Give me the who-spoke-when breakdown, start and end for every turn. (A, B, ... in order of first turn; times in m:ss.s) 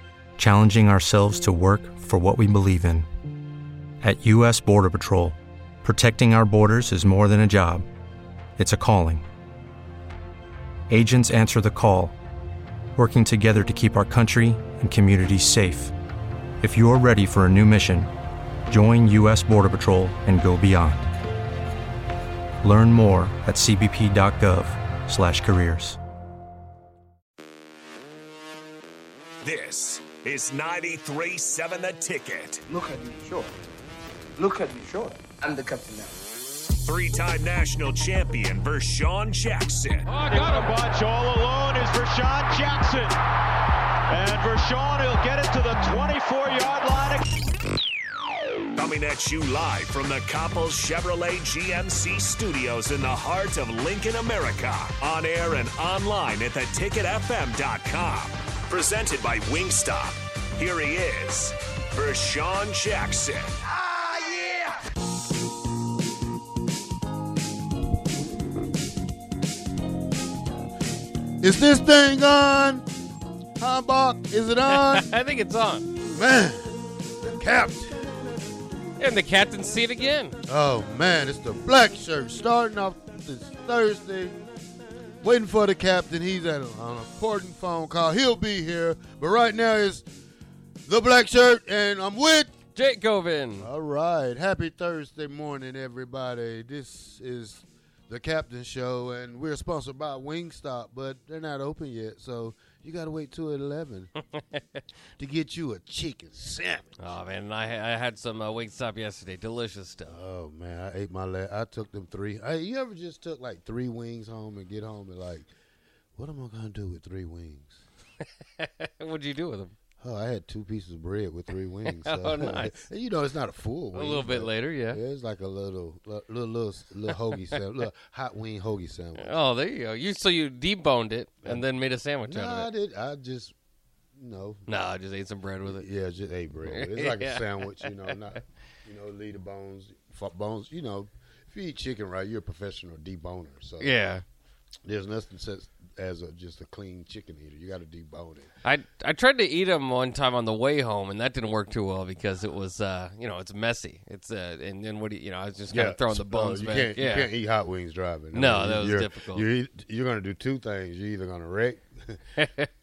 0:00.4-0:03.1 A
0:04.0-0:07.8 A
0:08.6-0:09.2 A
0:10.9-0:12.1 A
0:13.0-0:15.9 A
0:16.6-0:18.1 A
0:18.7-0:21.1 A
0:22.6-0:26.0 A
0:29.4-0:32.6 B
0:32.7-0:33.5 C
0:34.4-0:36.2 C
0:36.8-0:40.1 B
0:40.2-0:43.2 D
0:40.2-0:40.7 E
0:44.1-0:47.3 D
0:48.8-1:03.5 B
1:11.4-1:12.8 F
1:13.6-1:15.1 F
1:14.7-1:15.8 E
1:16.1-1:18.2 F
1:19.0-1:20.4 E
1:20.5-1:24.4 F
1:25.2-1:30.0 F
1:30.8-1:32.5 F
1:32.7-1:33.7 E
1:33.6-1:44.1 F
1:45.2-1:46.9 F
1:47.0-1:50.2 E
1:50.1-1:55.5 F
1:56.2-1:57.8 F
1:58.6-1:59.7 E
2:00.0-2:09.3 F
2:01.8-2:02.8 E
2:03.9-2:05.0 E
2:09.2-2:12.7 E
2:12.2-2:13.5 F
2:14.2-2:14.7 F
2:14.7-2:15.8 E
2:15.6-2:24.0 F
2:16.6-2:18.1 E
2:23.8-2:24.2 E
2:24.8-2:28.5 F
2:28.6-2:37.3 E
2:35.7-2:42.2 F
2:38.3-2:39.4 E
2:42.4-2:42.7 E